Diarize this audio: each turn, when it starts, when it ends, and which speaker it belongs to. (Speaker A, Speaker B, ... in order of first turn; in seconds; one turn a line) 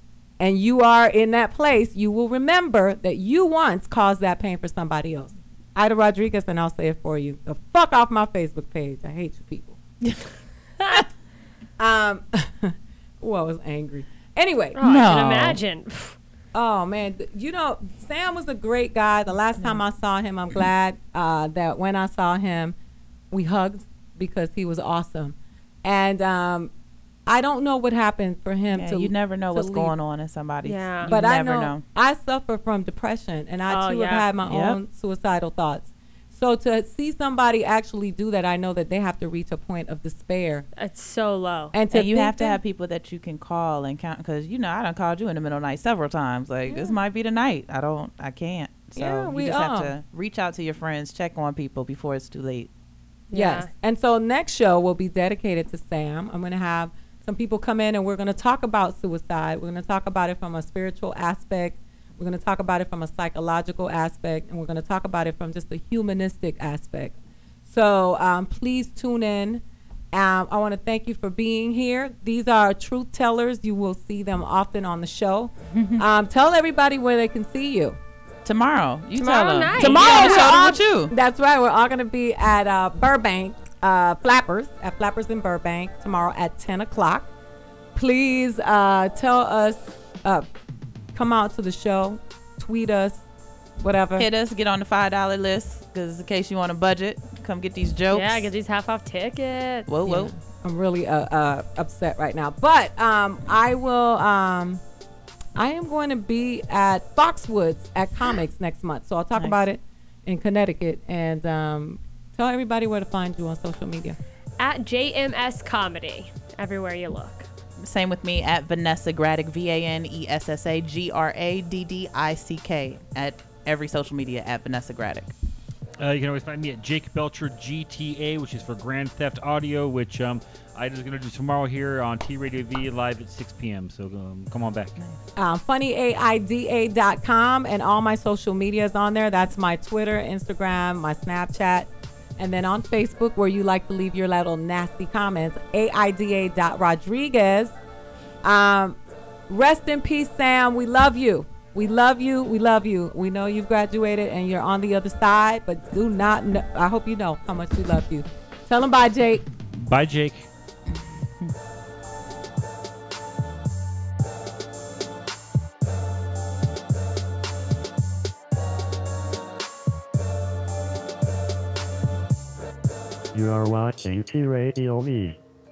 Speaker A: 0.4-9.8
Speaker A: 11.8-14.8
Speaker B: 14.7-16.2
Speaker C: 14.8-15.6
Speaker A: 16.5-22.7
Speaker A: 23.3-26.7
Speaker A: 27.3-29.9
Speaker C: 28.7-31.8
Speaker B: 30.6-31.1
Speaker A: 31.1-40.7
Speaker B: 33.7-34.3
Speaker C: 34.5-34.8
Speaker B: 40.8-41.7
Speaker A: 41.7-42.6
Speaker C: 41.9-52.7
Speaker A: 46.7-46.9
Speaker A: 49.0-49.9
Speaker B: 53.3-53.7
Speaker A: 53.3-67.1
Speaker A: 67.7-78.0
Speaker C: 75.7-76.0
Speaker C: 78.5-81.1
Speaker B: 79.2-80.5
Speaker A: 79.7-87.3
Speaker A: 88.0-90.5
Speaker A: 91.1-93.2
Speaker A: 93.8-94.3
Speaker C: 94.2-98.5
Speaker B: 98.1-99.9
Speaker C: 99.9-100.3
Speaker A: 100.0-104.8
Speaker A: 105.5-114.2
Speaker C: 109.4-109.6
Speaker B: 114.6-117.5
Speaker C: 117.8-125.3
Speaker D: 126.0-135.0
Speaker A: 135.4-147.7
Speaker A: 148.4-149.0
Speaker A: 149.5-159.4
Speaker D: 159.7-160.5
Speaker E: 173.3-175.4